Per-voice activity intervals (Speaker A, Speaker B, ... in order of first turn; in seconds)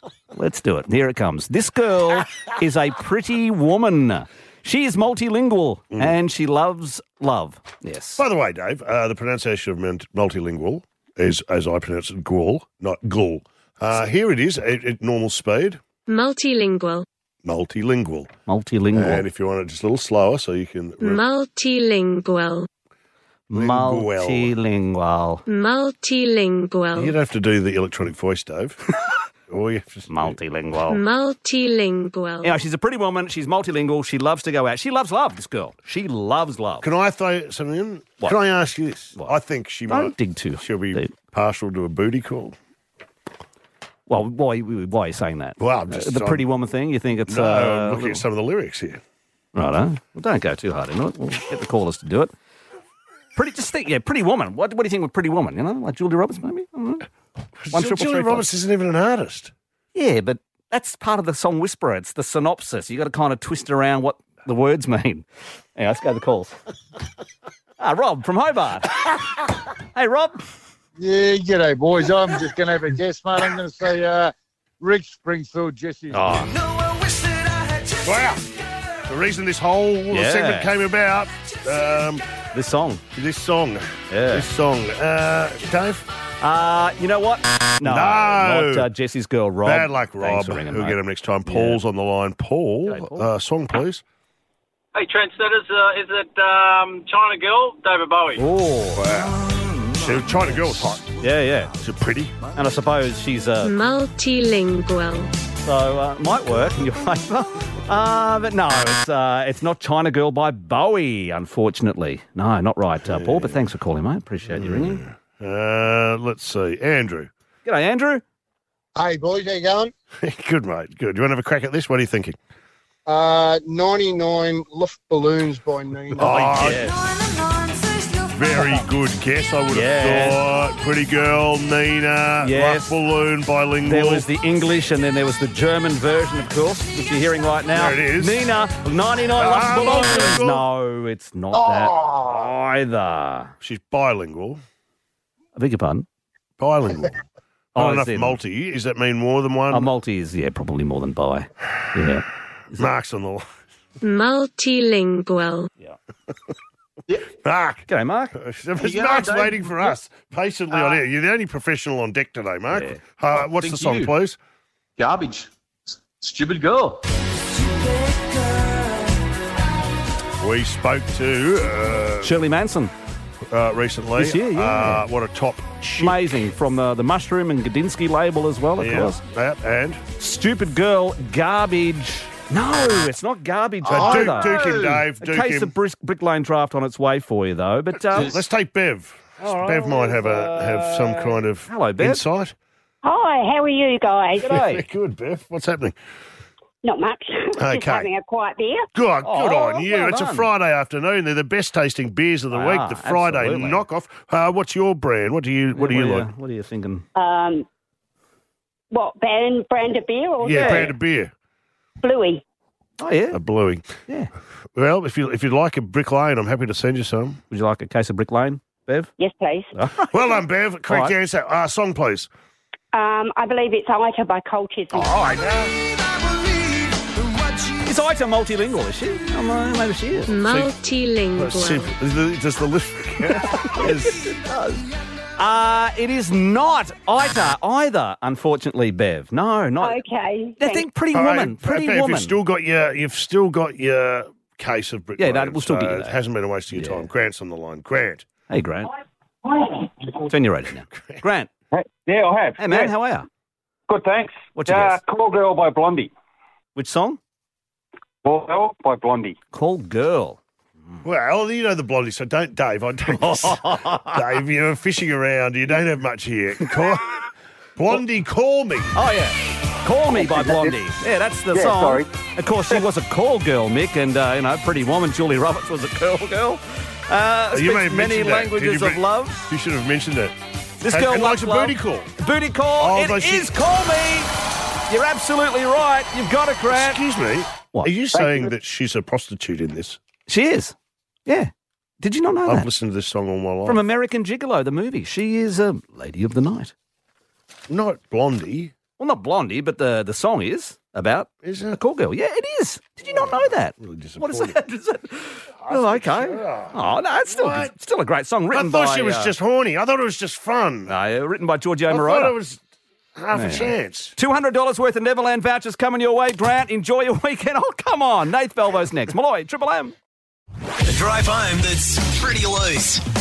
Speaker A: 0.3-8.2, 18.5-19.2, 23.5-25.4, 30.1-31.0, 32.4-36.9, 39.9-41.1, 44.1-48.2, 49.5-52.3, 53.4-57.1, 57.7-58.5, 59.9-65.2, 65.8-66.5, 67.8-69.1, 69.9-70.4, 76.1-76.5, 80.1-80.7, 82.5-83.0, 84.1-84.5, 86.4-91.8, 92.9-93.3, 98.3-101.7, 102.5-103.7, 105.6-115.0, 117.6-118.2, 126.2-127.0, 129.7-130.4, 132.4-132.9, 133.8-143.5, 145.6-146.0, 147.8-148.4, 149.7-152.2, 157.9-158.3, 162.7-163.0, 172.2-172.9, 174.2-175.0, 176.0-179.2, 180.2-188.4, 189.4-192.2, 194.4-194.8, 199.2-200.5, 202.5-203.8, 205.7-207.0, 210.6-210.9, 213.0-213.4, 217.5-219.1, 219.7-220.2, 220.9-221.1, 227.6-230.5, 233.8-234.8, 235.4-239.9, 240.6-242.3, 245.2-246.1, 246.7-247.0, 248.5-248.9, 250.3-251.5, 252.6-253.2, 254.5-255.0, 256.8-257.2, 259.5-260.4, 263.1-264.2, 268.9-279.4, 280.8-284.3, 284.9-287.0, 287.7-288.2, 290.3-290.7, 291.2-292.7, 293.6-296.7, 299.0-309.3, 310.9-312.3, 313.3-319.9
Speaker B: 8.2-15.8, 17.4-18.3, 18.9-21.2, 23.5-24.5, 26.9-28.8, 29.5-30.4, 36.8-42.5, 45.6-46.5, 47.3-49.0, 57.6-59.5, 78.0-78.4, 79.0-82.2, 83.1-86.1, 87.8-88.9, 89.6-94.0, 98.9-99.4, 99.9-101.2, 101.7-102.4, 113.0-113.6, 114.5-117.3, 120.2-122.4, 126.1-126.9, 128.3-134.2, 137.7-138.4, 139.3-140.6, 141.7-142.2, 143.6-144.6, 146.6-147.2, 147.7-149.9, 152.8-153.4, 157.4-164.4, 170.4-172.4, 173.5-176.3, 178.8-180.0, 183.8-185.7, 188.1-192.5, 194.6-195.9, 197.6-198.1, 198.9-206.3, 210.4-211.3, 213.3-214.0, 214.8-217.4, 220.1-222.3, 224.9-225.7, 231.3-234.2, 241.1-248.2, 261.0-267.1, 267.8-268.9, 277.5-280.3, 280.9-282.1, 282.8-283.6, 286.7-290.0, 292.4-293.8, 297.7-298.7, 301.4-301.8, 303.0-304.6, 305.6-307.7, 308.5-310.9, 311.9-312.6, 313.1-314.1
Speaker C: 16.1-17.1, 21.0-22.7, 25.5-27.1, 30.9-32.6, 103.6-105.3, 154.0-155.7, 230.3-231.9
Speaker D: 71.0-76.3, 118.9-119.9, 123.0-126.6
Speaker E: 95.0-98.4
Speaker F: 158.8-159.6, 163.4-164.1, 165.0-165.5, 166.2-167.0
Speaker G: 193.0-194.6, 196.8-198.9, 207.2-207.7, 208.9-210.9, 212.0-212.4, 219.2-219.7, 222.9-225.2, 239.8-240.8
Speaker H: 251.7-252.9, 253.9-256.1, 258.2-259.4
Speaker I: 320.8-323.0